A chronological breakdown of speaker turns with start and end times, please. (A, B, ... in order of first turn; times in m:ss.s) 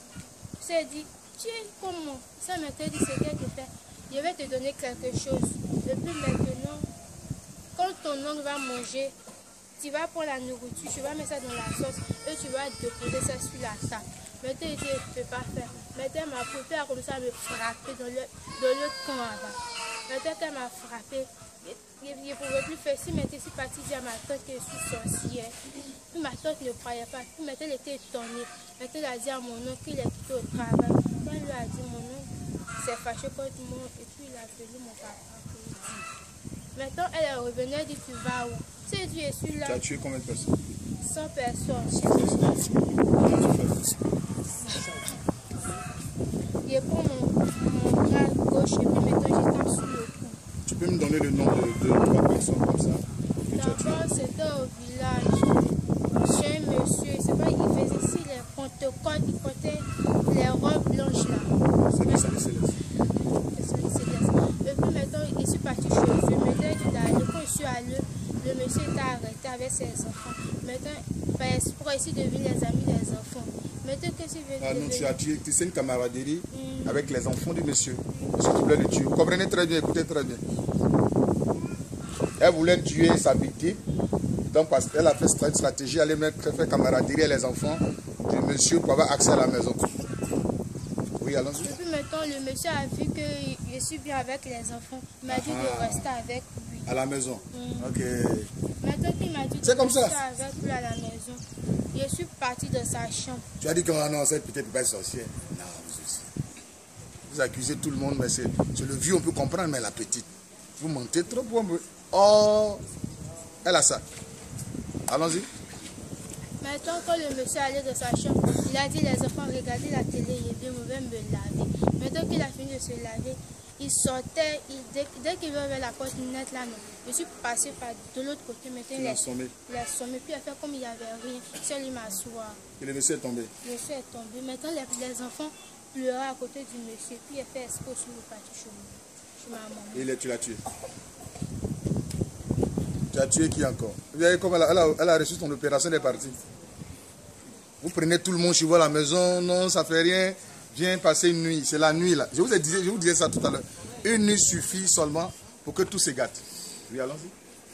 0:00.6-0:06.9 A
0:07.8-0:09.1 A
0:09.8-0:19.6 A
0:20.1-0:25.5 A
0:26.1-0:35.9 A
0:36.7-0:39.8 A
0:39.6-0:40.6 B
0:41.0-0:42.1 A
0:41.9-0:44.1 B
0:46.6-0:50.4 A
0:50.6-0:54.0 B
0:53.5-1:02.2 A
1:01.9-1:02.8 B
1:03.5-1:15.1 A
1:14.6-1:20.4 B
1:16.5-1:17.0 A
1:22.4-1:23.8 B
1:24.5-1:29.9 B
1:31.2-1:31.7 B
1:31.6-1:36.9 A
1:35.3-1:36.1 B
1:36.9-1:38.5 B
1:37.5-1:38.0 A
1:38.8-1:43.4 A
1:39.6-1:40.2 B
1:43.6-1:46.3 B
1:47.3-1:52.8 B
1:53.6-1:54.0 B
1:55.1-1:55.5 B
1:56.6-2:12.6 A
2:08.9-2:09.5 B
2:12.8-2:13.5 B
2:13.6-2:20.1 A
2:19.9-2:20.6 B
2:23.1-2:26.4 B
2:27.8-2:37.3 B